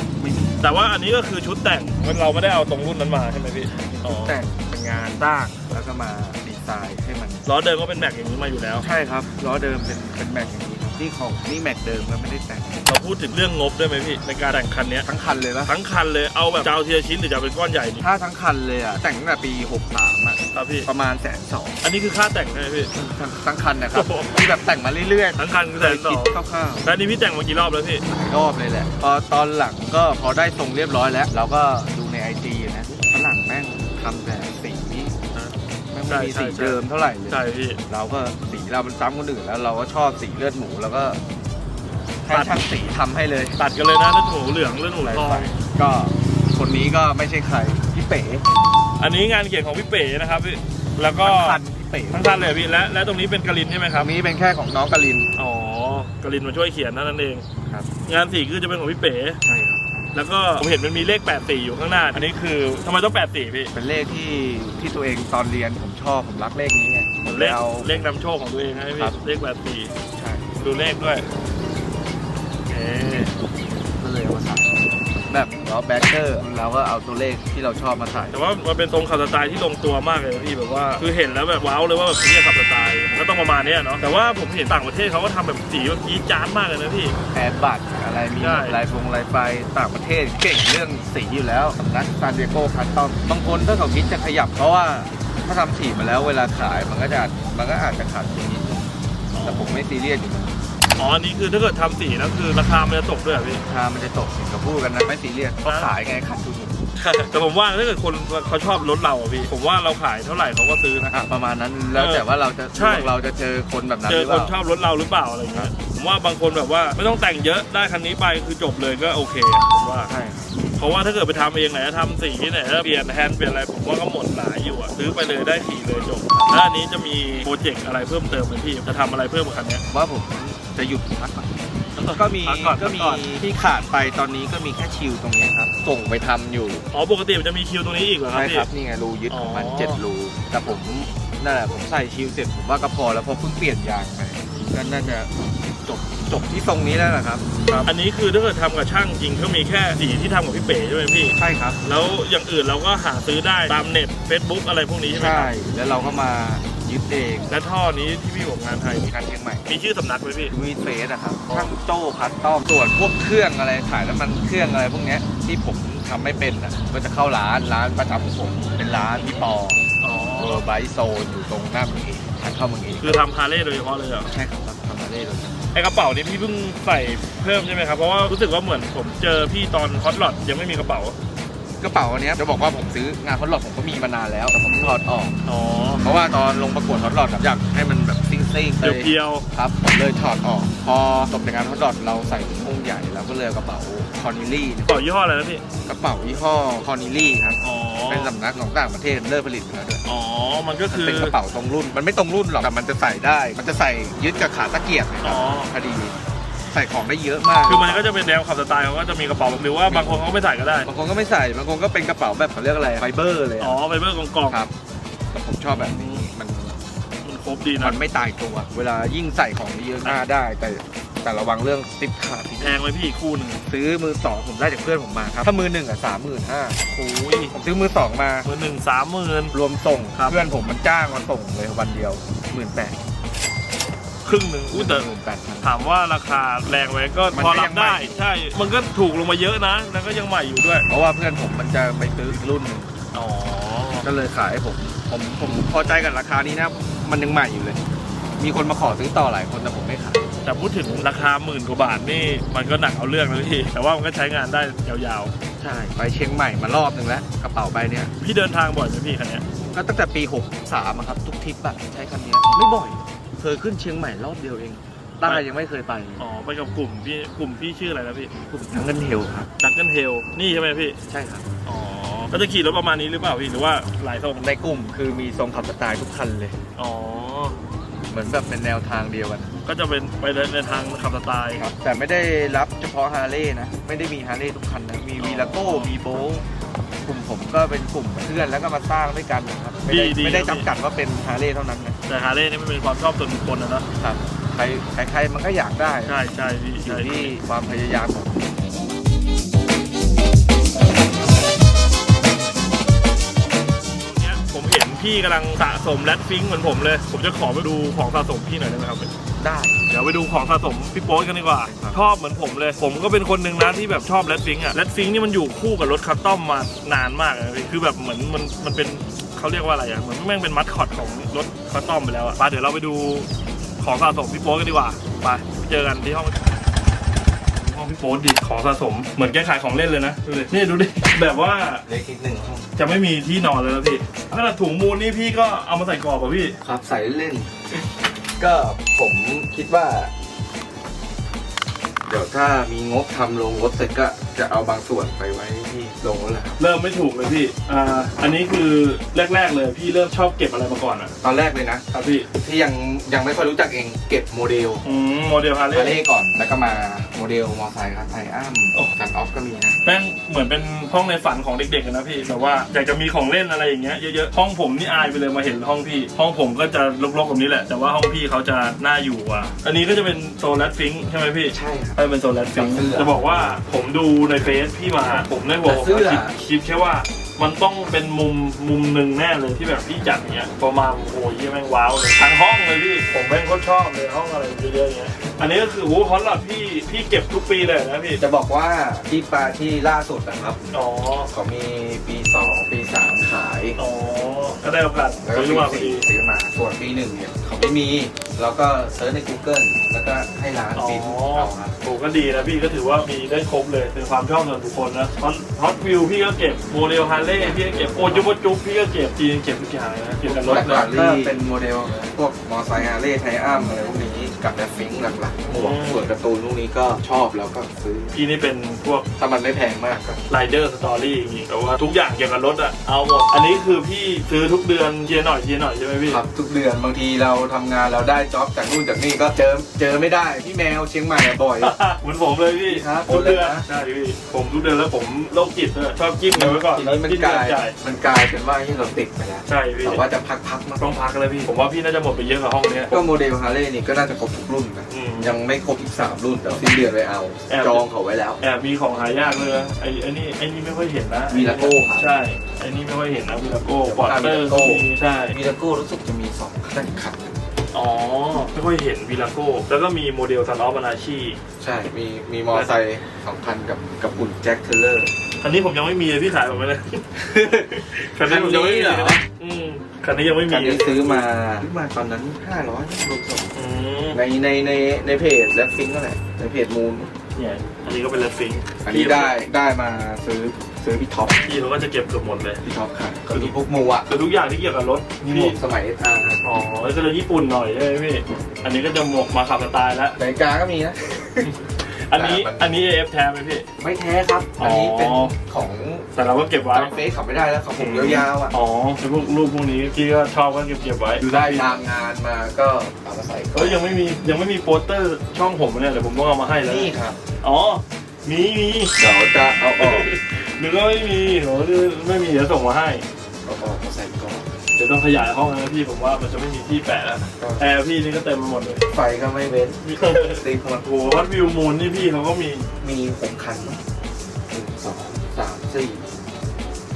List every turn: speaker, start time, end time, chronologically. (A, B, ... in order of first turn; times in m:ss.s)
0:00.2-0:00.6 A
0:00.6-0:04.4 B
0:03.7-0:07.4 A
0:07.5-0:08.8 B
0:08.8-0:12.9 A
0:12.9-0:15.1 B
0:15.0-0:15.7 A
0:15.6-0:18.0 B
0:18.0-0:21.8 A
0:20.5-0:20.9 B
0:21.8-0:22.9 B
0:22.9-0:26.9 A
0:23.9-0:24.4 B
0:25.4-0:28.0 B
0:28.1-0:35.2 A
0:35.9-0:41.2 A
0:36.1-0:37.8 B
0:42.2-0:43.6 A
0:42.3-0:42.6 B
0:43.6-0:45.5 B
0:45.0-0:48.5 A
0:49.0-0:51.6 B
0:51.2-0:52.5 A
0:52.1-0:54.1 B
0:54.0-0:55.3 A
0:55.4-0:57.4 B
0:58.1-0:59.4 B
0:59.4-1:00.1 A
1:00.1-1:03.7 B
1:03.7-1:08.1 A
1:07.3-1:09.9 B
1:10.2-1:10.6 A
1:10.6-1:11.2 B
1:12.7-1:13.3 B
1:14.0-1:18.4 A
1:18.3-1:27.2 B
1:27.3-1:38.9 A
1:28.4-1:28.8 B
1:39.3-1:39.8 B
1:39.4-1:40.6 A
1:41.0-1:43.6 B
1:43.7-1:46.8 A
1:45.6-1:45.9 B
1:47.0-1:51.1 B
1:51.1-1:54.6 A
1:52.0-1:53.1 B
1:54.1-2:00.1 B
2:00.1-2:00.5 A
2:00.8-2:09.8 B
2:06.3-2:06.6 A
2:09.9-2:11.5 A
2:12.0-2:13.3 B
2:12.0-2:16.8 A
2:16.9-2:18.7 B
2:18.3-2:25.3 A
2:19.3-2:20.0 B
2:21.5-2:21.8 B
2:24.5-2:25.2 B
2:25.8-2:27.9 A
2:27.8-2:36.2 B
2:31.4-2:31.8 A
2:35.0-2:37.6 A
2:37.5-2:39.1 B
2:38.9-2:39.7 A
2:39.7-2:40.6 B
2:40.5-2:49.8 A
2:41.5-2:41.7 B
2:50.0-2:50.6 B
2:50.4-2:53.2 A
2:53.0-2:54.3 B
2:54.3-2:55.6 A
2:55.7-3:01.2 B
3:01.8-3:05.4 A
3:04.6-3:06.0 B
3:06.0-3:14.9 A
3:08.8-3:09.4 B
3:14.9-3:15.6 B
3:15.9-3:20.0 A
3:17.6-3:18.3 B
3:20.0-3:21.4 B
3:20.9-3:26.2 A
3:25.2-3:25.7 B
3:26.7-3:28.1 A
3:27.6-3:30.9 B
3:29.9-3:30.3 A
3:30.9-3:33.8 A
3:33.6-3:34.6 B
3:35.3-3:36.8 A
3:35.7-3:36.3 B
3:37.2-3:38.0 B
3:37.8-3:42.8 A
3:42.6-3:43.6 B
3:43.6-3:46.8 A
3:46.9-3:47.5 B
3:47.5-3:48.5 A
3:48.4-3:49.6 B
3:49.5-3:53.0 A
3:50.2-3:50.4 B
3:54.2-3:55.1 B
3:54.7-3:55.8 A
3:55.6-4:00.9 B
3:57.3-3:58.2 A
4:00.9-4:02.9 A
4:03.1-4:04.1 B
4:04.0-4:07.8 A
4:08.4-4:10.2 A
4:10.4-4:15.3 B
4:15.6-4:18.1 A
4:18.2-4:19.4 B
4:19.7-4:26.2 A
4:26.2-4:28.3 B
4:28.5-4:29.5 A
4:29.6-4:31.0 B
4:31.1-4:31.4 A
4:31.7-4:34.5 B
4:34.4-4:36.6 A
4:36.8-4:37.6 B
4:38.1-4:39.5 A
4:39.6-4:41.6 B
4:41.6-4:46.5 A
4:45.2-4:46.1 B
4:47.0-4:52.0 A
4:49.9-4:50.7 B
4:52.1-4:53.9 B
4:54.0-4:56.2 A
4:56.1-4:57.3 B
4:56.8-4:58.6 A
5:03.9-5:09.1 B
5:09.4-5:09.8 A
5:09.9-5:23.3 B
5:11.6-5:12.0 A
5:23.8-5:26.4 B
5:27.6-5:31.8 B
5:31.8-5:32.7 A
5:32.8-5:36.6 B
5:36.6-5:37.9 A
5:38.4-5:40.1 A
5:42.1-5:46.6 A
5:46.6-5:51.1 B
5:47.8-5:48.2 A
5:51.2-5:54.8 A
5:51.9-5:52.3 B
5:54.8-5:56.0 B
5:55.7-5:59.8 A
5:59.8-6:28.2 B
6:11.5-6:12.0 A
6:12.5-6:13.6 A
6:15.6-6:16.4 A
6:28.2-6:30.6 A
6:30.7-6:31.3 B
6:31.3-6:33.8 A
6:33.8-6:36.1 B
6:35.2-6:41.7 A
6:40.8-6:51.3 B
6:47.0-6:48.3 A
6:50.4-6:58.2 A
6:55.5-6:56.1 B
6:58.1-6:59.1 B
6:59.2-7:00.2 A
7:00.3-7:06.2 B
7:06.1-7:11.7 A
7:11.6-7:17.8 B
7:12.7-7:13.7 A
7:16.3-7:20.9 A
7:19.5-7:20.0 B
7:20.8-7:23.0 B
7:22.9-7:28.4 A
7:24.9-7:25.4 B
7:27.5-7:27.8 B
7:28.4-7:35.4 B
7:31.3-7:32.2 A
7:33.8-7:37.4 A
7:37.7-7:41.4 B
7:41.6-7:45.1 A
7:45.4-7:51.3 B
7:47.2-7:49.2 A
7:50.5-7:53.5 A
7:53.6-7:54.2 B
7:54.1-7:57.1 A
7:57.4-7:59.4 B
7:58.8-8:01.4 A
8:01.4-8:02.6 B
8:02.6-8:04.2 A
8:03.3-8:05.6 B
8:05.2-8:06.4 A
8:06.4-8:10.2 B
8:10.2-8:11.5 A
8:11.4-8:13.7 B
8:12.1-8:12.8 A
8:13.8-8:16.1 A
8:14.6-8:15.3 B
8:16.2-8:17.0 B
8:16.7-8:18.6 A
8:17.8-8:21.6 B
8:21.2-8:23.8 A
8:23.6-8:29.0 B
8:26.6-8:27.2 A
8:29.0-8:30.1 A
8:29.8-8:33.0 B
8:33.4-8:34.5 A
8:34.8-8:38.8 B
8:37.4-8:37.7 A
8:38.9-8:40.8 A
8:39.8-8:42.7 B
8:42.8-8:43.8 A
8:44.5-8:46.1 A